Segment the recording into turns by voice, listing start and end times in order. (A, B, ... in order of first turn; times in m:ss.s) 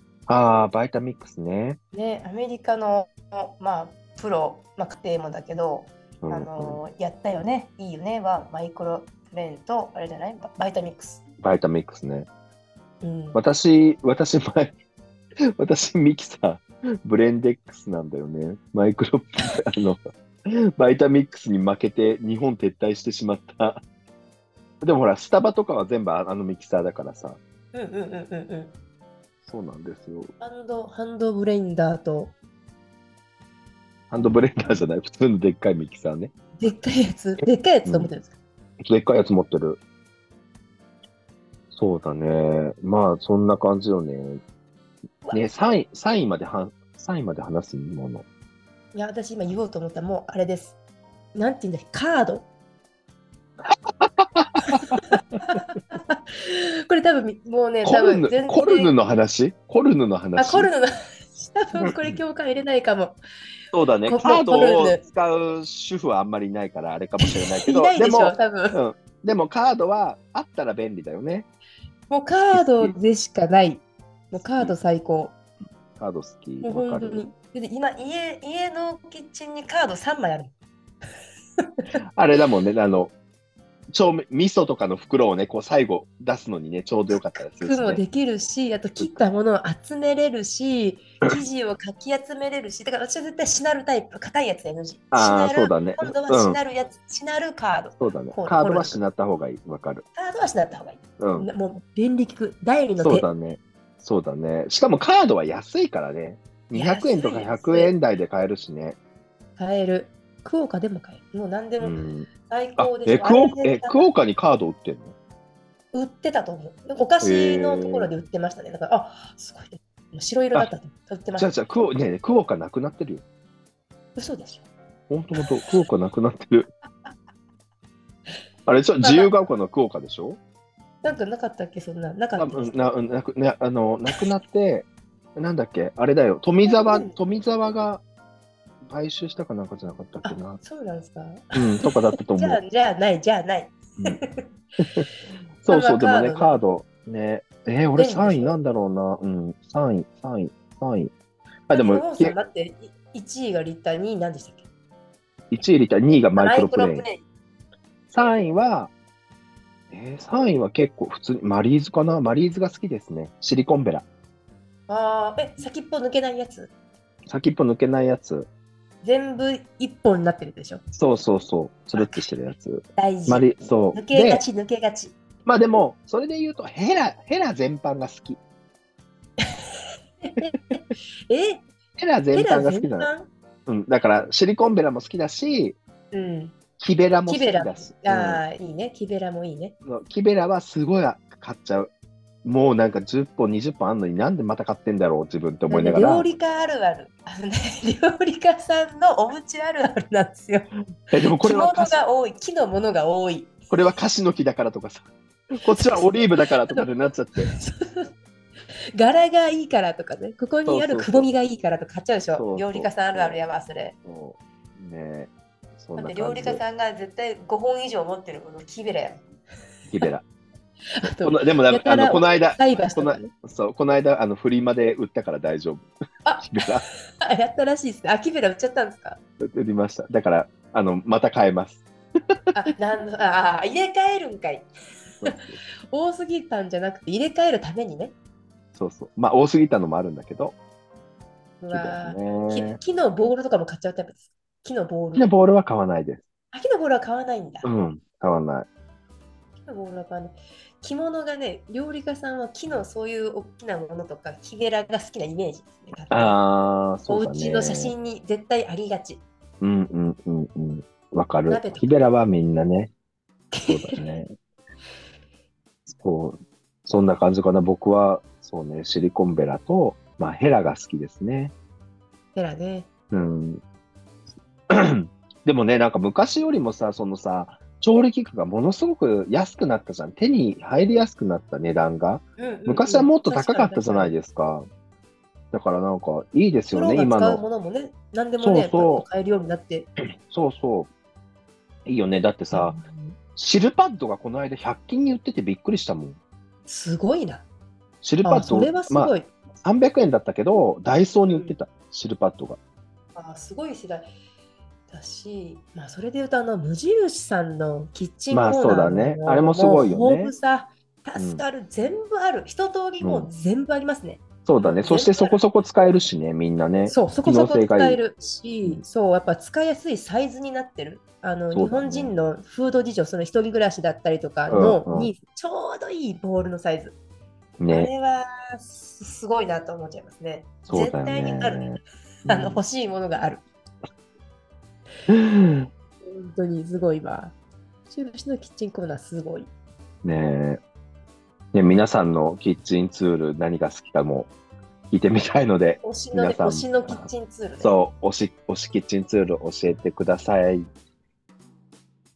0:00.3-0:01.8 A
0:01.9-0:11.2 B
0:06.2-0:06.8 A
0:11.4-0:12.3 A
0:13.0-0:13.4 B
0:13.3-0:14.8 A
0:15.6-0:23.8 A
0:24.8-0:27.4 A
0:27.7-0:28.7 B
0:29.5-0:30.3 A
0:30.4-0:32.3 B
0:34.1-0:36.3 A
0:36.6-0:38.4 B
0:37.8-0:38.1 A
0:38.8-0:39.8 A
0:41.7-0:44.4 A
0:45.3-0:48.2 A
0:48.9-0:50.8 B
0:51.4-0:52.5 B
0:53.7-0:55.6 A
0:54.7-0:59.0 B
0:57.8-1:00.7 A
1:00.4-1:03.2 B
1:01.8-1:02.2 A
1:03.7-1:11.5 A
1:04.1-1:05.0 B
1:07.2-1:08.8 B
1:12.1-1:15.3 B
1:12.5-1:13.0 A
1:16.0-1:17.3 A
1:16.6-1:20.5 B
1:22.2-1:23.1 A
1:23.9-1:28.0 A
1:27.1-1:39.0 B
1:35.1-1:36.6 A
1:38.0-1:40.0 A
1:40.2-1:43.3 B
1:41.2-1:41.5 A
1:43.0-1:49.0 A
1:46.7-1:47.9 B
1:49.6-1:54.1 B
1:51.8-1:55.2 A
1:55.9-2:01.5 B
1:57.2-1:58.1 A
2:01.4-2:03.2 A
2:04.2-2:04.7 B
2:05.1-2:06.7 A
2:08.7-2:10.4 A
2:09.0-2:09.3 B
2:11.0-2:12.8 B
2:12.4-2:18.0 A
2:16.6-2:17.2 B
2:18.9-2:20.6 A
2:20.2-2:24.5 B
2:21.6-2:22.6 A
2:24.8-2:25.1 A
2:25.6-2:31.1 A
2:25.7-2:26.6 B
2:27.9-2:28.6 B
2:31.7-2:32.4 A
2:31.7-2:34.6 B
2:35.5-2:37.1 A
2:36.4-2:37.2 B
2:38.1-2:38.9 A
2:39.9-2:44.0 A
2:44.9-2:46.7 B
2:47.3-2:48.5 A
2:49.0-2:50.8 B
2:51.0-2:54.4 A
2:52.0-2:52.3 B
2:53.0-2:55.2 B
2:55.4-2:58.4 A
2:59.4-3:01.6 B
3:02.0-3:03.1 A
3:02.3-3:03.3 B
3:03.7-3:05.8 A
3:06.1-3:06.6 B
3:06.8-3:08.4 A
3:07.3-3:09.8 B
3:09.8-3:11.9 A
3:12.4-3:16.3 A
3:15.7-3:20.7 B
3:21.1-3:22.0 A
3:21.2-3:23.6 B
3:23.7-3:27.5 A
3:25.7-3:26.8 B
3:27.4-3:28.1 B
3:29.0-3:34.0 B
3:30.6-3:31.3 A
3:32.4-3:33.4 A
3:34.0-3:36.6 A
3:36.0-3:39.2 B
3:39.9-3:40.2 A
3:41.0-3:43.3 B
3:41.0-3:45.9 A
3:46.2-3:49.2 B
3:46.4-3:46.8 A
3:49.4-3:51.8 A
3:52.6-3:54.7 B
3:55.2-3:55.6 A
3:55.2-3:58.1 B
3:58.8-4:00.6 A
4:01.6-4:05.3 B
4:01.7-4:02.8 A
4:05.2-4:06.2 A
4:06.5-4:07.8 B
4:07.6-4:08.7 A
4:09.7-4:16.4 B
4:16.1-4:17.9 A
4:17.1-4:19.2 B
4:19.6-4:22.9 A
4:21.5-4:21.9 B
4:23.5-4:24.1 B
4:23.7-4:24.3 A
4:25.9-4:31.5 A
4:32.4-4:32.9 B
4:33.1-4:33.6 A
4:34.7-4:44.7 A
4:42.4-4:44.2 B
4:45.5-4:47.4 A
4:46.7-4:49.9 B
4:48.4-4:49.1 A
4:50.3-4:50.9 A
4:51.9-4:52.8 A
4:52.5-4:53.2 B
4:53.4-4:56.2 A
4:56.7-4:57.5 B
4:58.0-5:02.6 A
4:58.2-4:59.3 B
5:01.3-5:01.6 B
5:03.2-5:04.1 B
5:04.9-5:15.4 B
5:08.3-5:10.3 A
5:11.2-5:11.4 A
5:13.0-5:13.3 A
5:14.5-5:18.0 A
5:16.9-5:27.0 B
5:21.5-5:22.1 A
5:24.5-5:25.1 A
5:27.6-5:27.9 A
5:27.7-5:31.7 B
5:30.7-5:32.6 A
5:32.3-5:33.4 B
5:35.1-5:35.7 A
5:36.0-5:37.4 B
5:37.9-5:39.5 B
5:40.0-5:40.6 A
5:41.5-5:44.3 A
5:44.9-5:47.1 A
5:45.8-5:47.7 B
5:47.6-5:50.7 A